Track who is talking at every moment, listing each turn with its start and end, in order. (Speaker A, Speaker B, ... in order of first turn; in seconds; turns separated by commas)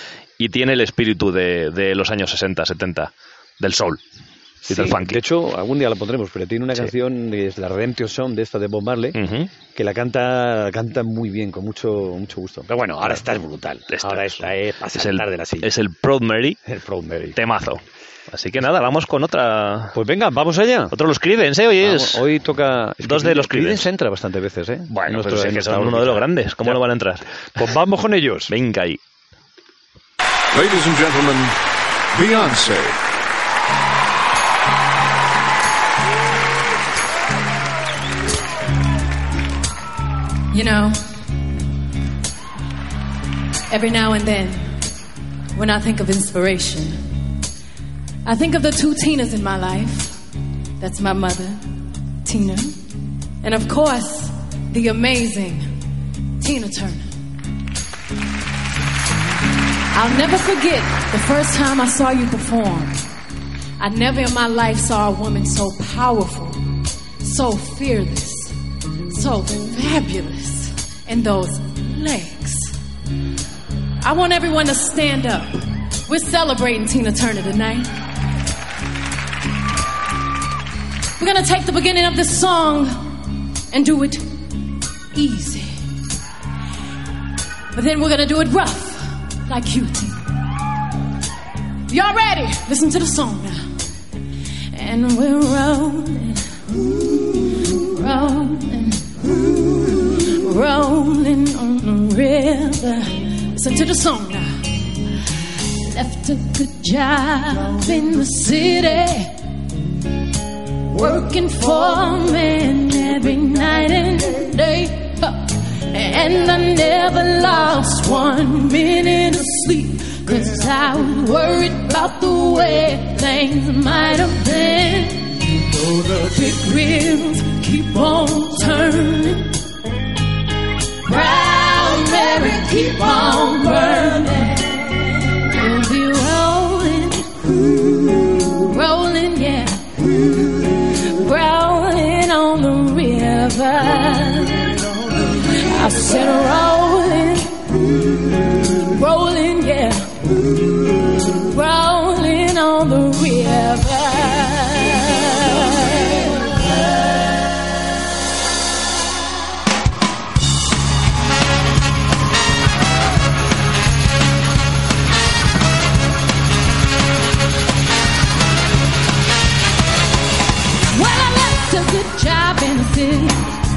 Speaker A: 0.4-4.0, Speaker B: 4.6-9.2, Speaker A: 4.7-5.2, Speaker A: 9.2-9.5, Speaker B: 9.8-15.7, Speaker A: 13.9-16.6, Speaker B: 16.7-17.4, Speaker A: 17.4-20.0, Speaker B: 19.9-20.9, Speaker A: 20.9-22.2, Speaker B: 21.8-26.8, Speaker A: 23.0-23.9, Speaker A: 24.9-27.2, Speaker B: 27.6-28.5, Speaker A: 28.5-29.0, Speaker C: 30.5-31.6, Speaker C: 32.1-33.0, Speaker D: 40.5-41.1, Speaker D: 43.7-44.8, Speaker D: 45.5-47.1, Speaker D: 48.2-50.2, Speaker D: 50.8-55.7, Speaker D: 56.4-57.1, Speaker D: 59.9-63.0, Speaker D: 63.8-68.6, Speaker D: 69.1-72.8, Speaker D: 74.0-78.0, Speaker D: 81.2-85.9, Speaker D: 87.7-90.3, Speaker D: 91.9-93.7, Speaker D: 94.7-104.9, Speaker D: 105.8-109.4, Speaker D: 110.9-129.6, Speaker D: 131.1-156.6, Speaker D: 170.9-173.6